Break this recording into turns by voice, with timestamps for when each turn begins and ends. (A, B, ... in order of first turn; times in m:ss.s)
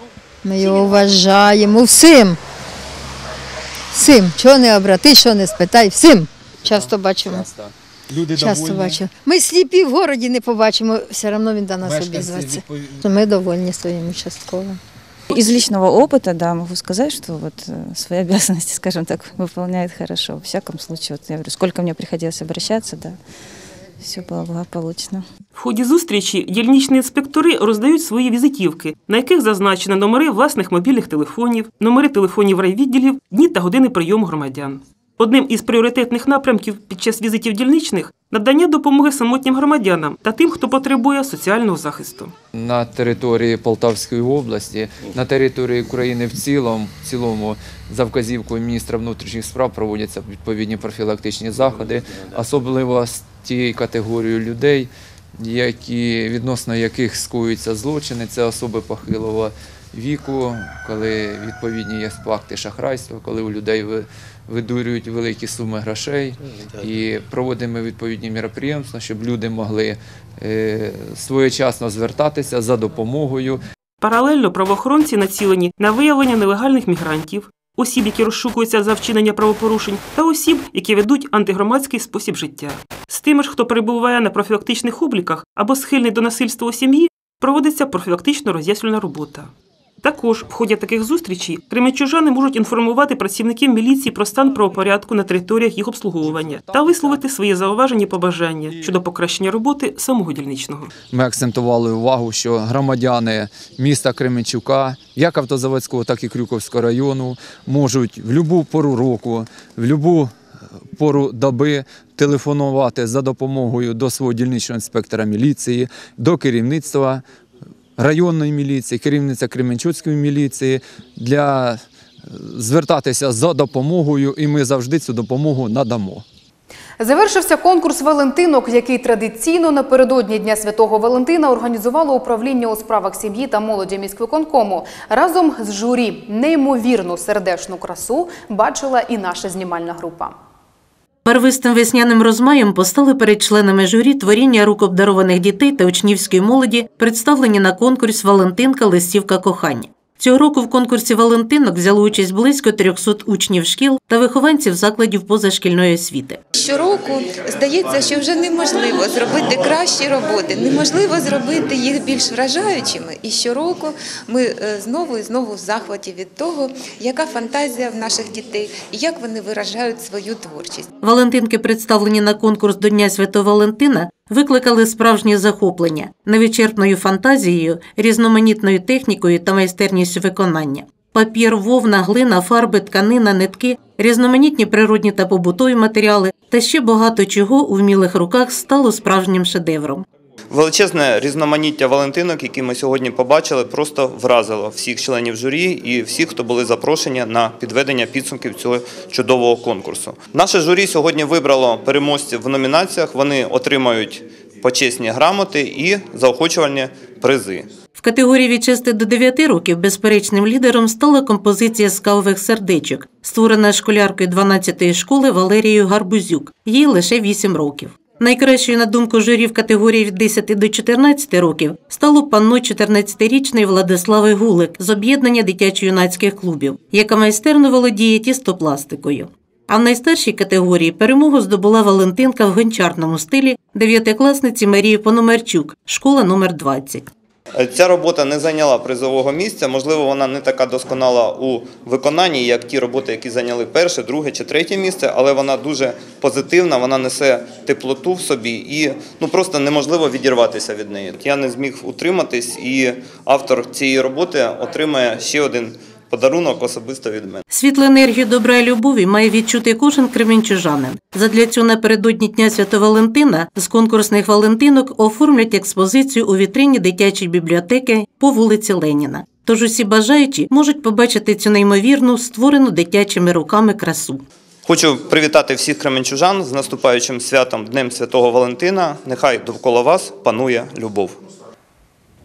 0:00.4-0:02.4 A
0:03.9-0:07.5 A
0:06.6-0:07.7 B
0:08.3-0:14.8 A
0:15.3-0:23.2 C
0:24.0-0:25.2 C
0:25.6-0:42.3 D
0:42.5-1:13.6 B
1:14.0-1:29.5 D
1:30.0-1:40.9 D
1:36.4-1:37.2 B
1:41.1-1:50.3 B
1:51.0-1:57.2 B
1:58.0-2:06.2 B
2:07.0-2:20.3 E
2:21.2-2:36.4 F
2:36.6-2:50.9 G
2:51.0-3:10.0 F
3:10.5-3:27.7 H
3:28.0-3:57.1 F
3:57.6-4:17.4 H
4:17.5-4:34.2 F
4:34.7-4:41.2 H